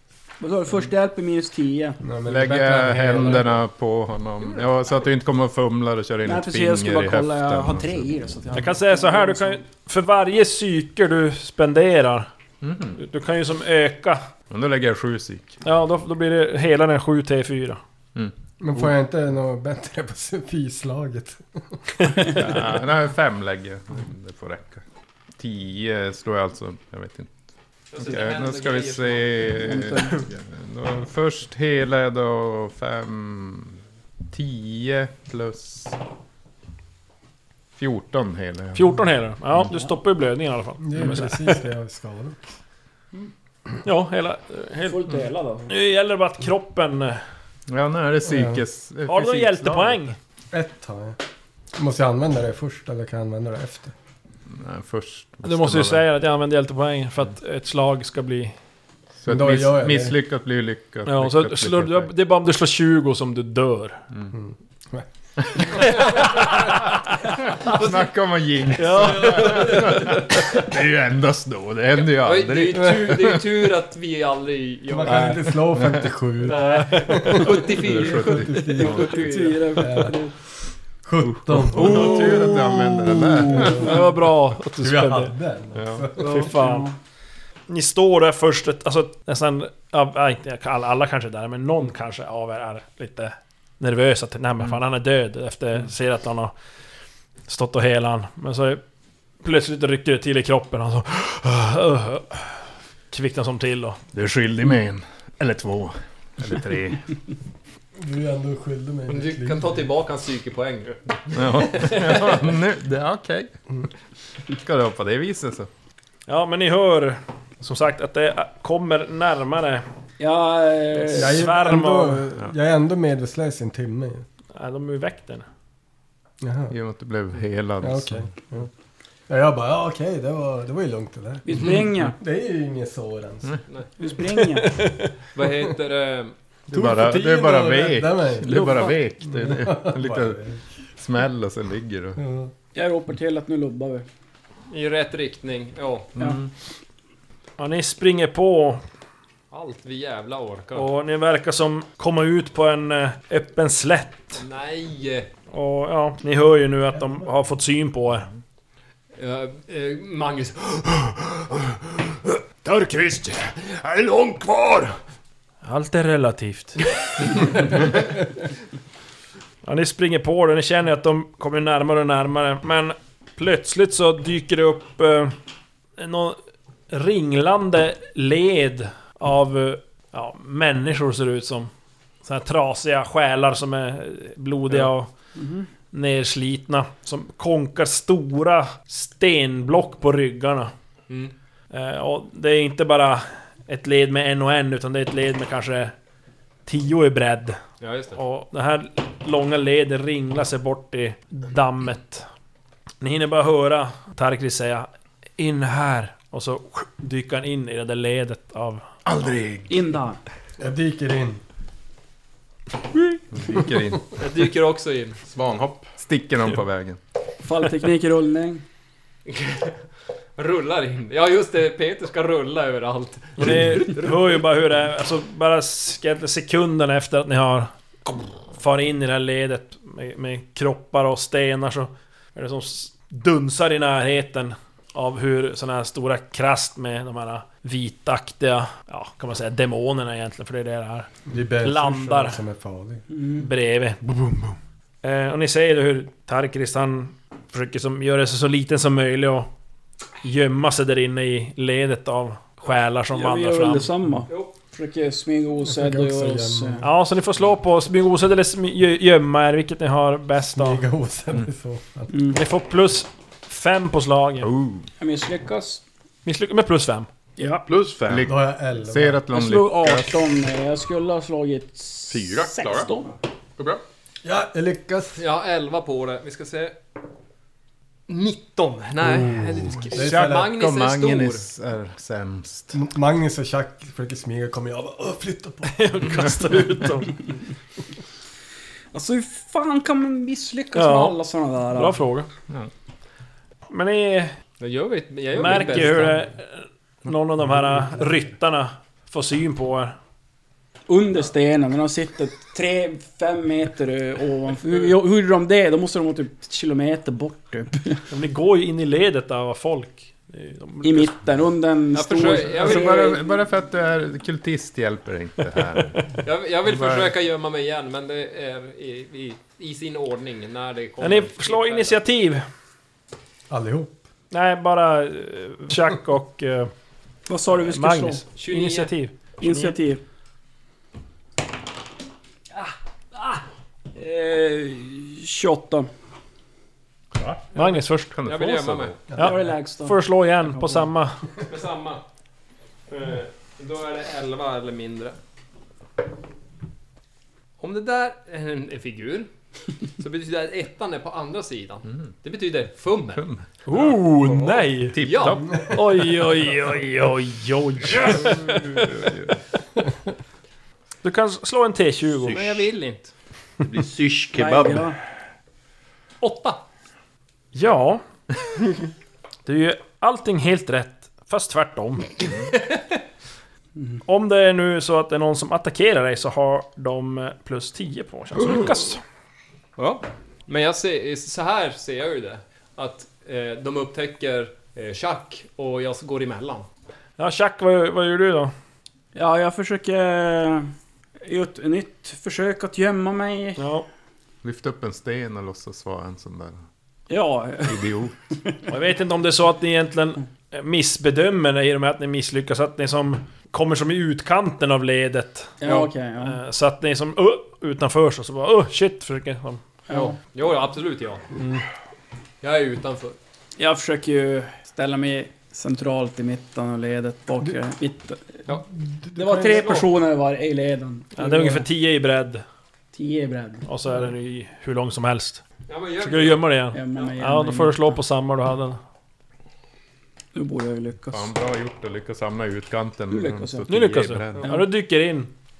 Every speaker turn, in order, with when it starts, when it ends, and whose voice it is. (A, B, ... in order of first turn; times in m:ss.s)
0:00.4-0:02.0 A
0:02.0-0:03.5 B
0:02.3-0:08.1 C
0:06.2-0:09.6 A
0:08.5-0:12.3 D
0:12.6-0:13.0 C
0:13.0-0:14.3 D
0:14.5-0:15.6 C
0:15.6-0:17.8 D
0:18.1-0:18.9 C
0:18.6-0:22.2 B
0:22.2-0:24.8 C
0:25.4-0:27.4 C
0:27.9-0:29.6 E
0:27.9-0:36.0 C
0:29.6-0:30.2 A
0:37.8-0:39.0 C
0:38.7-0:41.6 D
0:40.8-0:42.6 B
0:43.8-0:45.0 D
0:44.9-0:45.7 A
0:45.7-0:47.2 D
0:47.7-0:50.1 C
0:48.2-0:48.6 B
0:49.1-0:50.1 D
0:50.5-0:51.2 B
0:51.7-0:53.9 B
0:54.5-0:56.0 C
0:55.4-0:58.5 D
0:59.2-1:02.1 C
0:59.3-1:00.2 B
1:01.0-1:04.0 D
1:04.3-1:05.1 B
1:05.4-1:13.4 C
1:05.8-1:06.9 D
1:08.8-1:09.7 D
1:09.0-1:10.1 B
1:11.9-1:15.6 E
1:14.9-1:20.2 B
1:15.7-1:16.1 C
1:16.4-1:19.8 E
1:17.7-1:18.8 C
1:18.6-1:20.3 A
1:21.0-1:23.9 B
1:21.3-1:23.9 C
1:23.5-1:25.3 D
1:24.8-1:26.5 B
1:25.7-1:26.1 C
1:26.2-1:26.9 D
1:26.2-1:26.9 A
1:27.7-1:36.5 D
1:37.5-1:38.8 D
1:39.4-1:44.0 D
1:44.1-1:47.1 C
1:48.0-1:49.7 B
1:49.1-1:52.5 E
1:51.3-1:53.5 C
1:54.5-1:55.7 C
1:56.3-1:59.8 D
2:00.2-2:01.4 A
2:01.0-2:02.3 D
2:01.1-2:04.2 B
2:04.5-2:05.4 D
2:06.4-2:06.7 B
2:06.7-2:08.3 C
2:07.8-2:08.7 B
2:09.3-2:13.5 B
2:11.4-2:12.2 A
2:14.0-2:14.8 A
2:14.3-2:15.1 D
2:15.3-2:16.3 E
2:16.7-2:20.4 C
2:16.7-2:20.6 B
2:21.0-2:22.2 C
2:22.2-2:22.5 B
2:22.7-2:24.0 A
2:24.7-2:26.1 E
2:26.1-2:26.5 C
2:27.6-2:28.8 D
2:29.5-2:30.9 E
2:30.7-2:34.4 D
2:34.4-2:35.3 E
2:35.5-2:38.3 D
2:39.2-2:45.0 E
2:45.6-2:47.8 D
2:49.6-2:55.3 D
2:56.0-2:56.4 D
2:56.9-3:01.7 D
3:02.2-3:05.1 D
3:05.4-3:05.7 A
3:05.9-3:10.7 D
3:11.7-3:15.9 D
3:16.6-3:17.6 D
3:17.8-3:18.2 E
3:18.1-3:22.3 D
3:23.0-3:28.8 D
3:29.0-3:29.8 C
3:29.7-3:30.2 A
3:30.6-3:31.4 B
3:33.3-3:34.2 C
3:34.2-3:35.2 E
3:35.2-3:35.9 F
3:36.0-3:37.0 C
3:37.4-3:38.6 A
3:39.3-3:39.8 E
3:40.4-3:44.4 E
3:43.4-4:01.1 D
4:01.2-4:03.0 B
4:01.6-4:02.4 D
4:03.1-4:03.5 A
4:03.4-4:04.5 D
4:05.0-4:09.5 D
4:10.2-4:13.9 D
4:13.1-4:16.9 A
4:14.3-4:14.5 E
4:15.6-4:16.8 B
4:16.8-4:20.8 D
4:20.6-4:22.1 B
4:22.1-4:22.4 A
4:22.3-4:24.5 D
4:24.4-4:24.9 C
4:25.0-4:25.8 A
4:26.2-4:27.1 D
4:27.4-4:27.6 A
4:27.7-4:28.3 F
4:28.1-4:30.1 C
4:28.2-4:29.2 B
4:29.3-4:33.1 A
4:32.1-4:32.9 F
4:33.6-4:33.8 F
4:34.2-4:35.2 B
4:35.2-4:36.8 E
4:38.1-4:41.4 E
4:39.2-4:42.8 C
4:39.8-4:40.5 B
4:42.7-4:45.9 B
4:45.6-4:47.2 D
4:48.9-4:52.0 A
4:50.7-4:51.2 D
4:51.7-4:52.3 D
4:53.7-4:54.4 D
4:54.6-4:56.2 E
4:55.3-5:00.0 D
4:55.4-4:55.8 A
5:00.9-5:08.0 A
5:08.1-5:11.2 D
5:10.8-5:13.2 A
5:11.9-5:13.2 E
5:12.5-5:16.1 C
5:15.7-5:16.0 D
5:16.2-5:22.0 E
5:16.6-5:17.1 C
5:21.0-5:22.4 D
5:23.5-5:24.0 B
5:24.3-5:26.7 D
5:27.3-5:28.2 A
5:27.5-5:29.8 D
5:28.4-5:28.9 E
5:29.4-5:30.0 A
5:32.6-5:33.4 A
5:33.9-5:35.9 A
5:37.5-5:38.2 D
5:37.5-5:39.0 E
5:38.1-5:39.1 C
5:39.1-5:40.9 A
5:39.2-5:41.2 D
5:41.5-5:42.0 E
5:42.9-5:45.2 E
5:47.6-5:49.3 E
5:50.0-5:53.3 E
5:53.2-5:54.3 C
5:53.6-5:55.0 D
5:54.2-5:55.4 E
5:54.8-5:55.8 C
5:55.7-5:59.2 D
5:58.0-5:59.3 C
6:01.0-6:02.4 D
6:02.2-6:02.7 F
6:02.3-6:03.1 E
6:03.6-6:04.9 F
6:04.3-6:04.9 A
6:06.2-6:06.6 E
6:07.5-6:08.0 D
6:09.4-6:12.1 D
6:12.3-6:13.0 E
6:14.0-6:19.0 D
6:19.8-6:26.7 E
6:27.2-6:28.5 D
6:29.1-6:30.7 A
6:31.2-6:33.6 A
6:33.6-6:33.8 D
6:34.4-6:36.6 C
6:37.1-6:38.0 A
6:37.6-6:38.1 C
6:38.7-6:49.6 D
6:45.6-6:46.4 A
6:49.9-6:50.2 A
6:49.9-6:51.3 E
6:51.4-6:51.6 D
6:52.4-6:53.2 E
6:53.6-6:58.4 A
6:58.8-6:59.8 B
6:59.2-7:01.7 A
6:59.4-6:59.9 E
7:01.2-7:02.4 D
7:02.9-7:03.6 A
7:03.6-7:05.4 D
7:05.7-7:07.1 E
7:06.0-7:08.8 D
7:06.7-7:07.8 A
7:10.3-7:11.3 A
7:11.1-7:14.5 C
7:13.1-7:13.7 A
7:13.7-7:15.3 D